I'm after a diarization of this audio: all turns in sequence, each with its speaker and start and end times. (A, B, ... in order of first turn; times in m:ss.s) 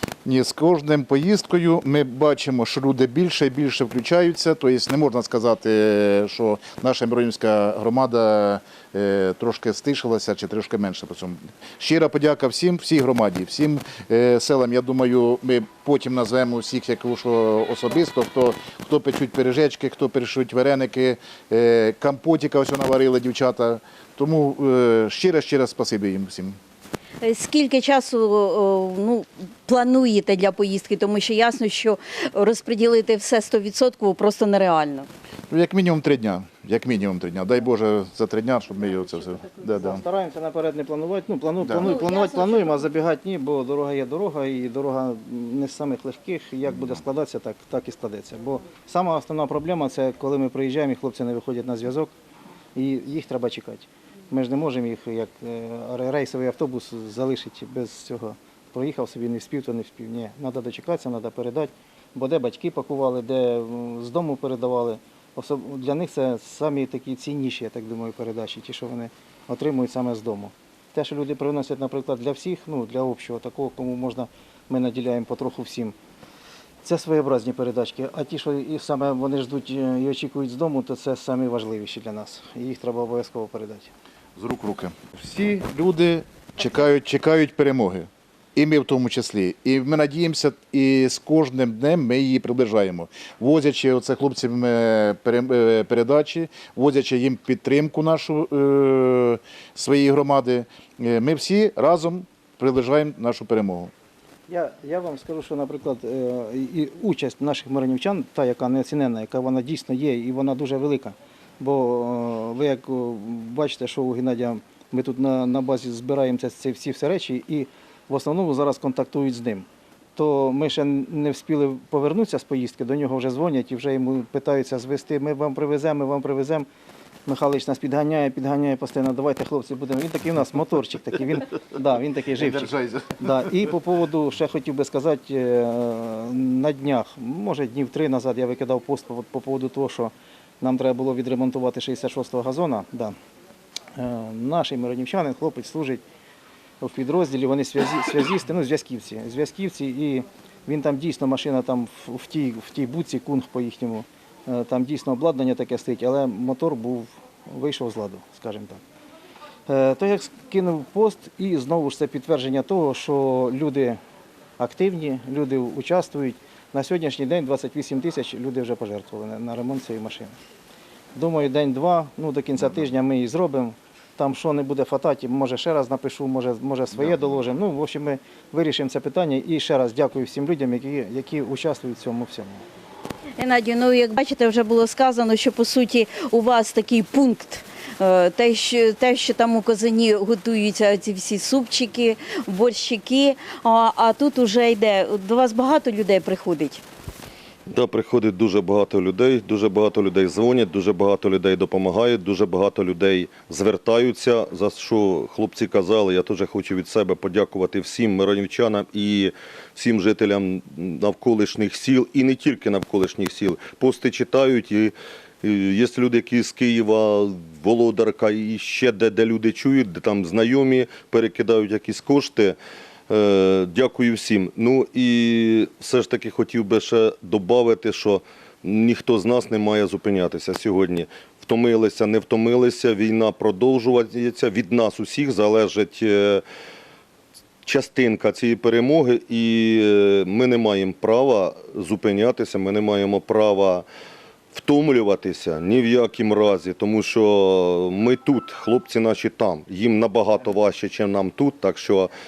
0:00.2-0:26.6 A
0:27.2-0:35.1 B
0:35.5-0:40.0 A
0:39.8-0:52.1 C
0:41.6-0:41.9 A
0:52.7-1:15.9 C
1:16.8-1:23.9 C
1:24.4-1:43.9 A
1:44.5-2:06.7 C
2:07.2-2:23.1 C
2:12.4-2:13.3 A
2:23.9-2:26.0 C
2:26.8-2:38.8 C
2:39.7-2:44.0 C
2:44.6-2:50.4 C
2:51.1-3:02.6 C
3:03.4-3:16.8 B
3:17.7-3:42.6 D
3:43.1-3:56.4 D
3:57.6-4:03.8 D
4:04.5-4:12.1 D